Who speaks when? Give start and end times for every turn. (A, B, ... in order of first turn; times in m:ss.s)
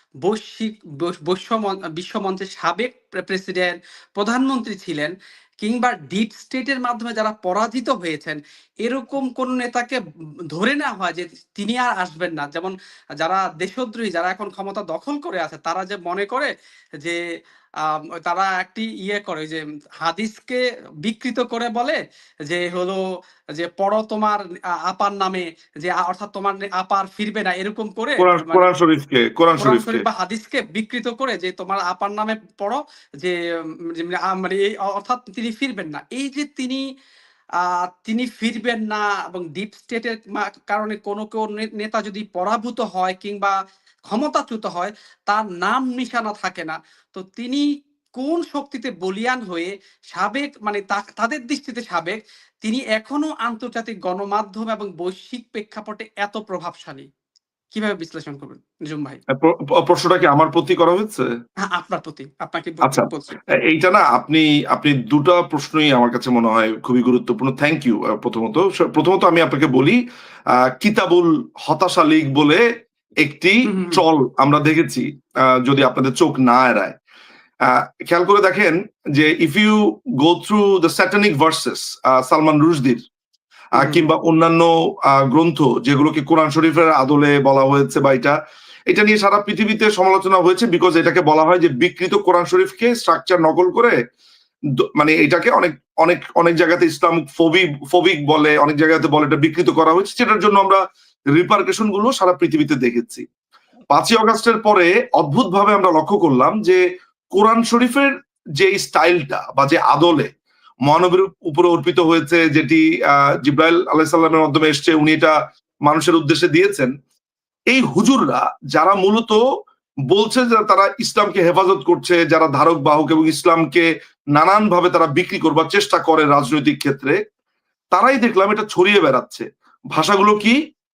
0:00.2-0:10.0 A
0:10.5-0:16.5 A
0:17.8-0:23.0 A
0:23.6-0:28.7 A
0:28.2-0:30.0 B
0:29.6-0:33.4 A
0:33.9-0:36.8 A
0:37.6-0:43.5 A
0:44.1-0:47.6 A
0:48.2-0:57.1 A
0:57.7-0:59.2 A
0:59.3-1:01.3 B
1:01.7-1:03.4 A
1:02.8-1:10.0 B
1:10.6-1:12.6 B
1:13.2-1:15.0 B
1:13.7-1:14.0 A
1:15.6-1:16.9 B
1:17.7-1:23.0 B
1:23.8-1:28.4 B
1:23.8-1:24.1 A
1:28.9-1:34.0 B
1:35.0-1:40.8 B
1:41.3-1:43.2 B
1:43.9-1:46.8 B
1:47.4-1:50.3 B
1:50.9-1:52.8 B
1:53.4-1:55.3 B
1:55.9-1:56.9 B
1:57.7-1:59.4 B
2:00.1-2:07.2 B
2:07.9-2:10.6 B